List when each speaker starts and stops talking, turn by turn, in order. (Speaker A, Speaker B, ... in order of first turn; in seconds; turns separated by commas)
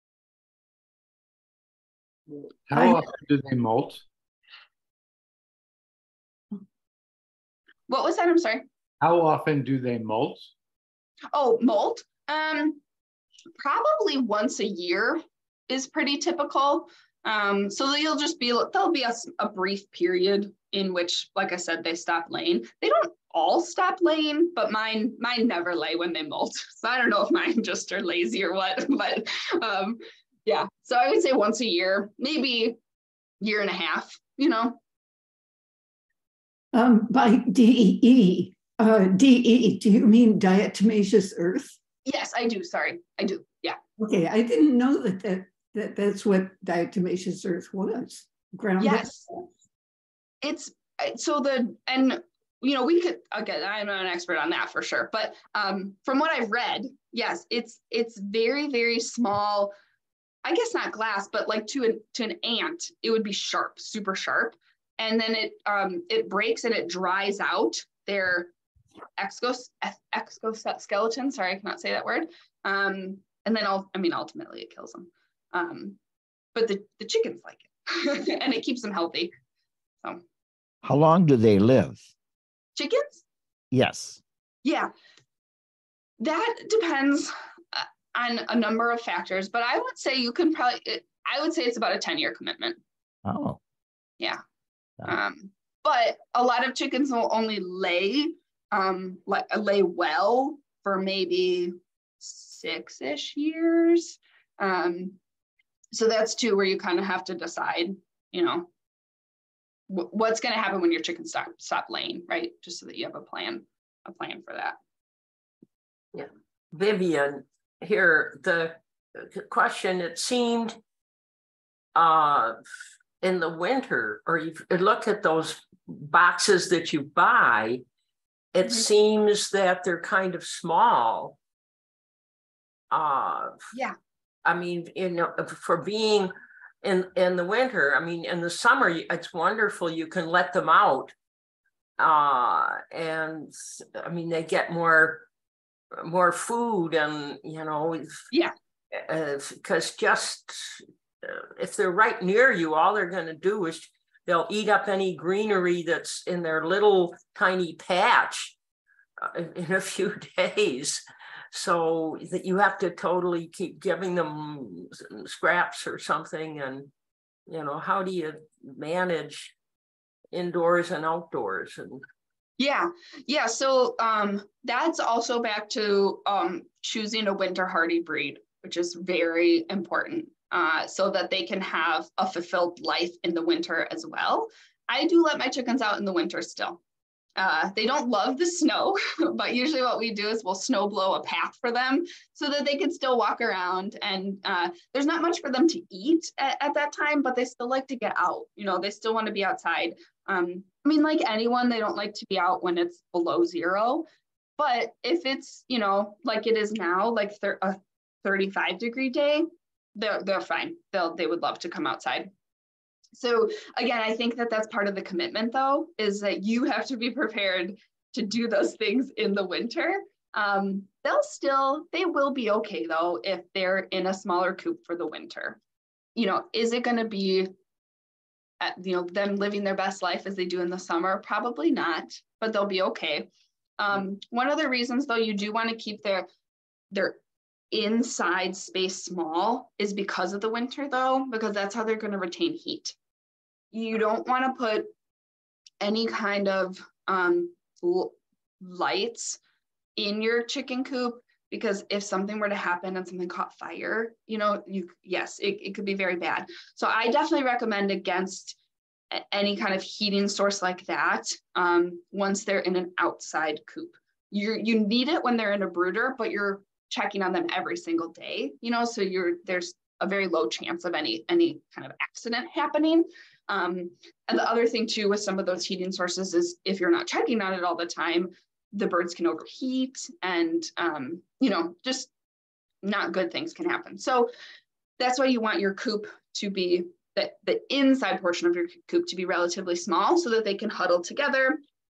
Speaker A: 2.7-4.0, Speaker B: 7.9-8.6, Speaker A: 9.0-10.5, Speaker B: 11.3-12.8, Speaker B: 13.6-32.8, Speaker B: 33.4-34.8, Speaker C: 36.7-41.8, Speaker B: 42.0-43.8, Speaker C: 44.0-49.2, Speaker B: 48.8-49.2, Speaker B: 50.4-59.7, Speaker B: 60.4-68.5, Speaker B: 69.2-76.0, Speaker B: 76.5-79.3, Speaker D: 80.8-82.1, Speaker B: 82.8-83.2, Speaker D: 83.7-84.2, Speaker B: 84.6-84.9, Speaker B: 86.2-92.8, Speaker D: 93.2-93.6, Speaker B: 95.1-105.2, Speaker B: 105.9-108.7, Speaker B: 109.9-114.8, Speaker E: 116.1-120.8, Speaker E: 121.9-122.6, Speaker E: 123.2-127.8, Speaker E: 128.5-131.4, Speaker E: 132.9-133.7, Speaker E: 134.4-141.1, Speaker E: 142.0-145.2, Speaker E: 145.9-148.3, Speaker E: 148.9-158.5, Speaker E: 159.2-166.9, Speaker E: 167.5-169.5, Speaker E: 170.3-172.0, Speaker B: 172.6-186.8, Speaker B: 187.4-204.0, Speaker B: 204.6-212.3, Speaker B: 213.1-225.6, Speaker B: 226.1-227.5, Speaker B: 228.6-233.3, Speaker B: 233.8-236.3, Speaker B: 236.9-237.2, Speaker B: 237.7-242.9, Speaker B: 243.7-244.9, Speaker B: 245.8-249.4, Speaker B: 249.9-258.6, Speaker B: 259.1-282.1, Speaker B: 282.8-284.3, Speaker B: 285.0-291.6